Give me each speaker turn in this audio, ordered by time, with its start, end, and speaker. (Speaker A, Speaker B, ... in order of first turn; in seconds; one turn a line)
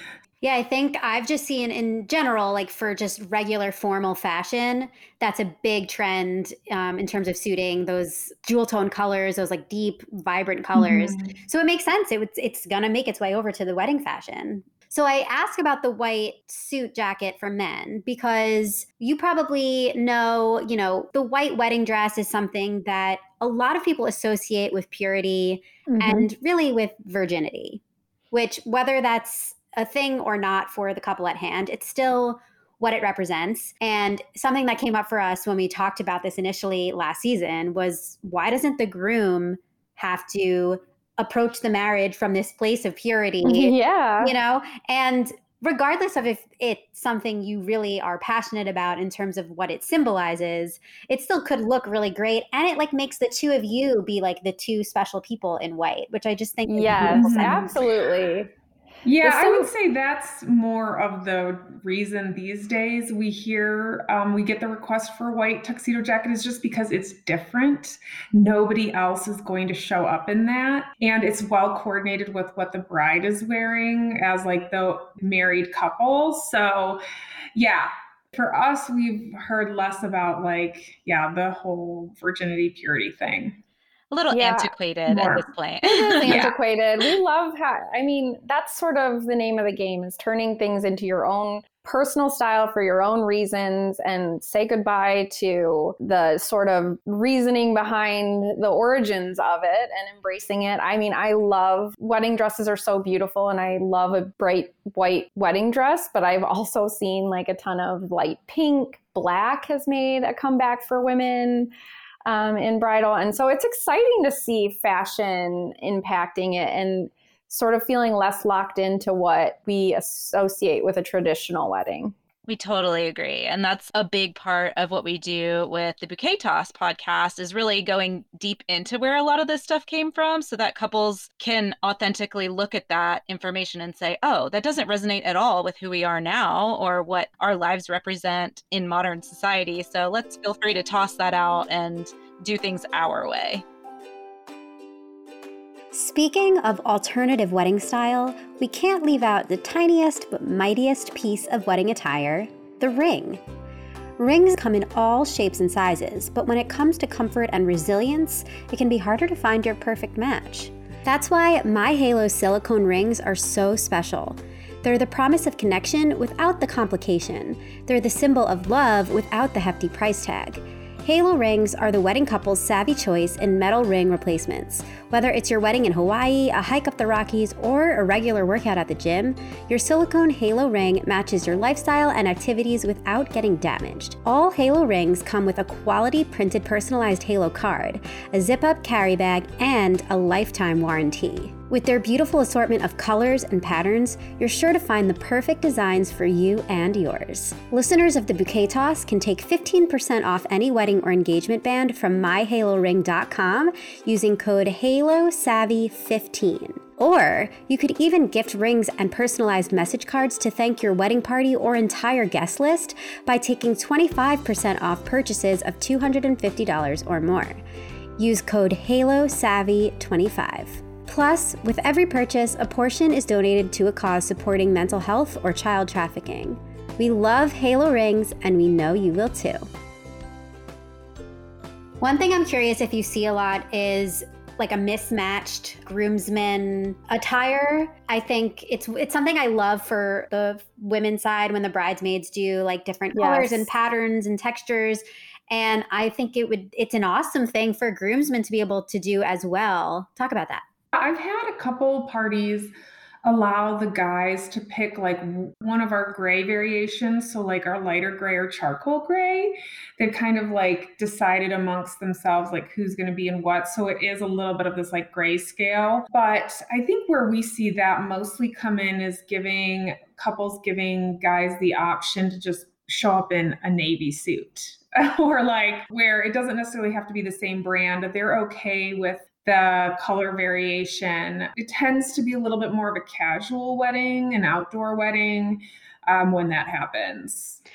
Speaker A: 0.4-27.8
Speaker B: 10.7-11.4
Speaker C: 25.9-26.3
Speaker A: 28.3-57.7
Speaker C: 43.4-44.3
Speaker C: 56.7-58.5
Speaker B: 57.1-57.8
Speaker B: 59.0-77.0
Speaker C: 59.2-59.7
Speaker B: 77.5-83.6
Speaker D: 84.1-86.5
Speaker C: 84.3-84.7
Speaker B: 85.1-85.5
Speaker C: 85.8-111.7
Speaker B: 86.2-86.5
Speaker C: 112.2-122.1
Speaker D: 122.5-143.6
Speaker A: 145.9-153.4
Speaker A: 154.2-217.6
Speaker A: 218.2-229.6
Speaker A: 232.0-250.6
Speaker C: 243.1-243.7
Speaker B: 250.9-252.7
Speaker B: 253.2-287.6